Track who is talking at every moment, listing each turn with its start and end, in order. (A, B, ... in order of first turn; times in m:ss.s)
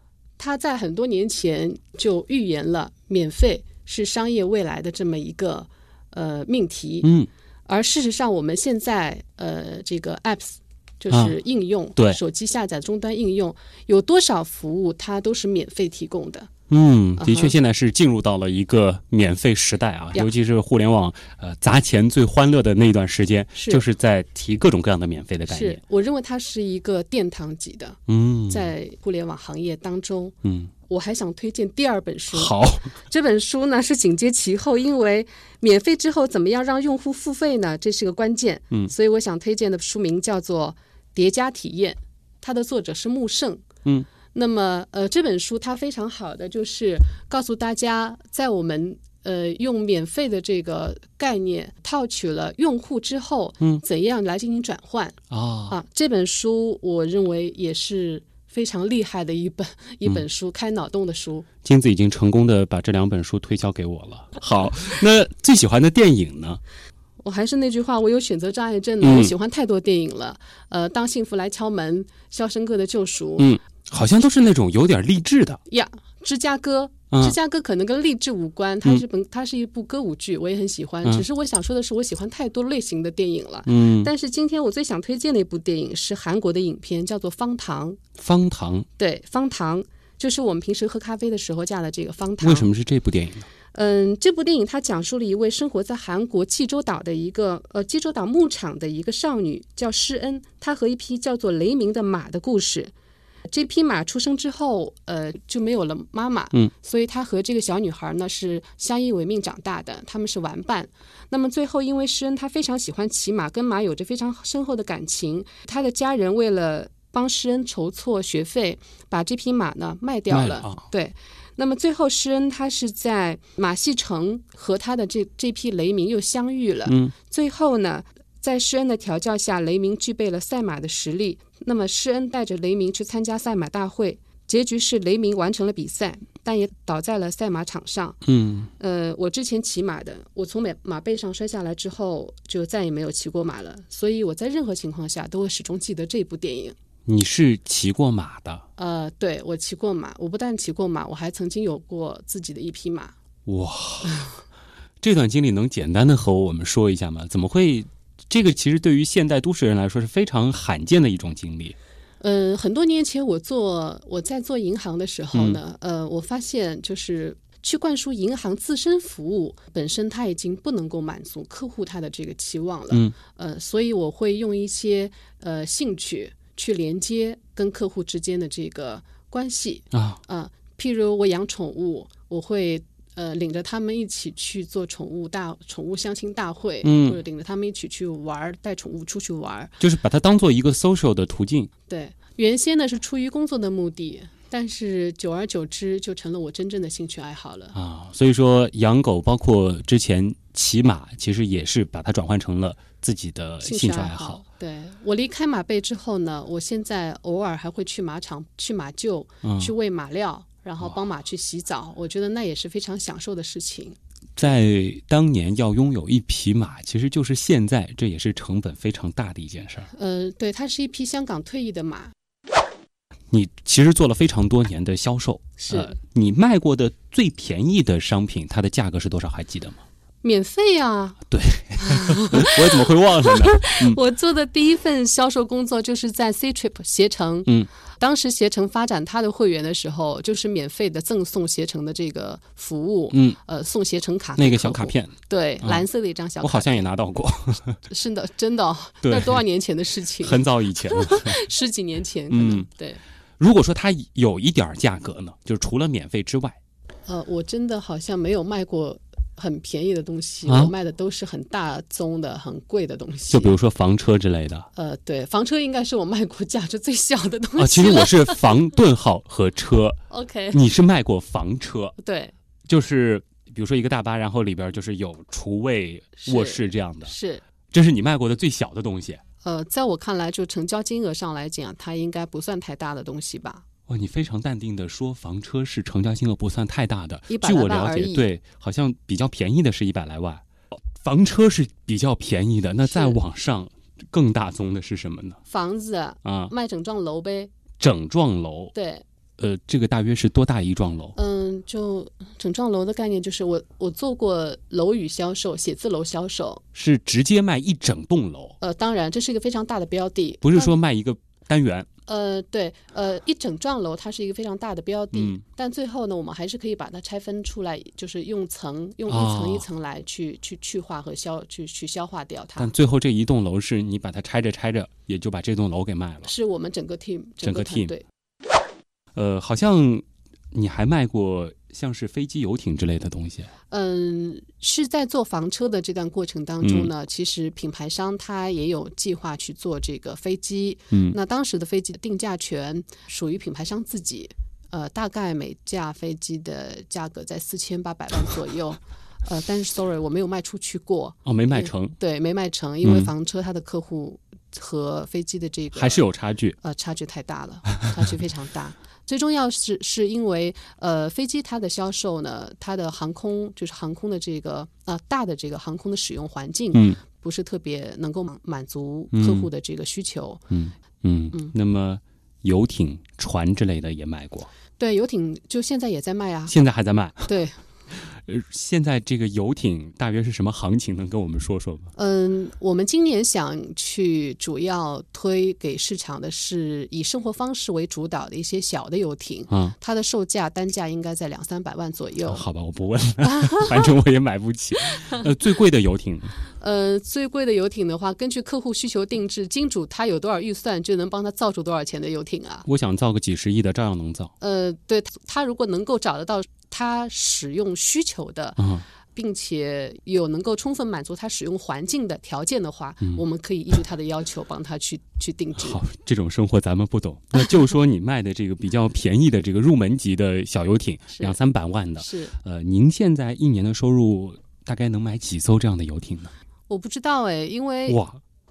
0:00.4-0:07.1 A
0:07.0-0:07.3 B
0:07.7-0:16.5 A
0:11.1-0:11.4 B
0:16.7-0:25.8 B
0:17.2-0:17.5 A
0:23.5-0:23.8 A
0:25.5-0:30.3 A
0:28.1-0:28.7 B
0:30.4-0:30.7 B
0:30.9-0:32.5 A
0:32.3-0:32.9 B
0:33.0-0:43.6 A
0:44.3-0:55.2 A
0:55.3-0:55.8 B
0:55.7-1:01.5 A
1:01.6-1:06.6 B
1:07.2-1:13.5 A
1:09.0-1:09.3 B
1:13.4-1:15.6 B
1:15.7-1:28.0 A
1:17.1-1:17.4 B
1:23.7-1:24.1 B
1:28.2-1:28.9 B
1:29.0-1:32.7 A
1:32.4-1:33.5 B
1:33.7-1:42.9 A
1:43.5-2:18.2 A
2:00.3-2:00.8 B
2:06.8-2:07.1 B
2:18.2-2:18.7 B
2:18.8-2:26.7 A
2:27.0-2:28.6 B
2:28.8-2:33.1 A
2:33.4-2:34.2 B
2:35.0-2:41.8 B
2:42.2-3:09.8 A
2:45.3-2:45.6 B
2:59.9-3:00.2 B
3:06.8-3:07.2 B
3:09.8-3:11.7 B
3:11.9-3:17.7 A
3:17.7-3:24.4 B
3:23.6-3:34.0 A
3:29.4-3:29.7 B
3:34.4-3:39.9 B
3:39.9-3:42.1 A
3:43.3-3:49.8 B
3:45.6-3:46.0 A
3:50.2-3:51.2 A
3:51.3-3:54.0 B
3:51.8-4:06.8 A
4:03.1-4:03.4 B
4:04.4-4:05.8 B
4:06.4-4:07.8 B
4:07.9-4:13.0 A
4:09.0-4:09.4 B
4:10.2-4:11.4 B
4:12.3-4:12.7 B
4:13.4-4:16.6 B
4:17.1-4:23.6 A
4:20.4-4:20.7 B
4:23.3-4:24.7 B
4:24.7-4:28.4 A
4:27.6-4:30.0 B
4:30.1-4:30.6 A
4:30.5-4:32.0 B
4:32.0-4:32.3 A
4:32.7-4:37.1 B
4:36.2-4:37.4 A
4:37.7-4:39.2 B
4:39.4-4:43.6 A
4:43.9-4:55.4 B
4:47.3-4:48.2 A
4:52.8-4:53.2 A
4:55.5-4:57.5 A
4:56.2-4:56.5 B
4:57.8-4:58.7 B
4:58.7-4:59.0 A
4:59.4-5:01.2 B
5:01.1-5:06.6 A
5:06.7-5:08.6 B
5:08.6-5:10.7 A
5:10.4-5:11.9 B
5:12.1-5:22.7 A
5:15.1-5:15.4 B
5:19.1-5:19.6 B
5:22.6-5:26.3 B
5:26.2-5:28.0 A
5:27.4-5:27.9 B
5:29.1-5:33.5 B
5:33.7-5:56.0 A
5:36.6-5:36.9 B
5:40.9-5:41.2 B
5:51.2-5:52.0 B
5:52.8-5:53.1 B
5:55.7-5:56.6 B
5:56.6-6:10.4 A
6:06.7-6:07.0 B
6:09.1-6:09.5 B
6:10.5-6:14.5 B
6:14.8-6:16.5 A
6:16.5-6:17.3 B
6:17.2-6:17.5 A
6:18.1-6:21.9 B
6:22.0-6:32.4 A
6:29.5-6:29.7 B
6:32.2-6:36.3 B
6:33.2-6:33.7 A
6:36.6-6:42.6 A
6:42.6-6:44.3 B
6:44.4-6:55.8 A
6:48.6-6:48.8 B
6:55.6-7:06.3 B
7:01.1-7:01.4 A
7:02.0-7:02.3 A
7:06.7-7:08.0 A
7:07.9-7:08.2 B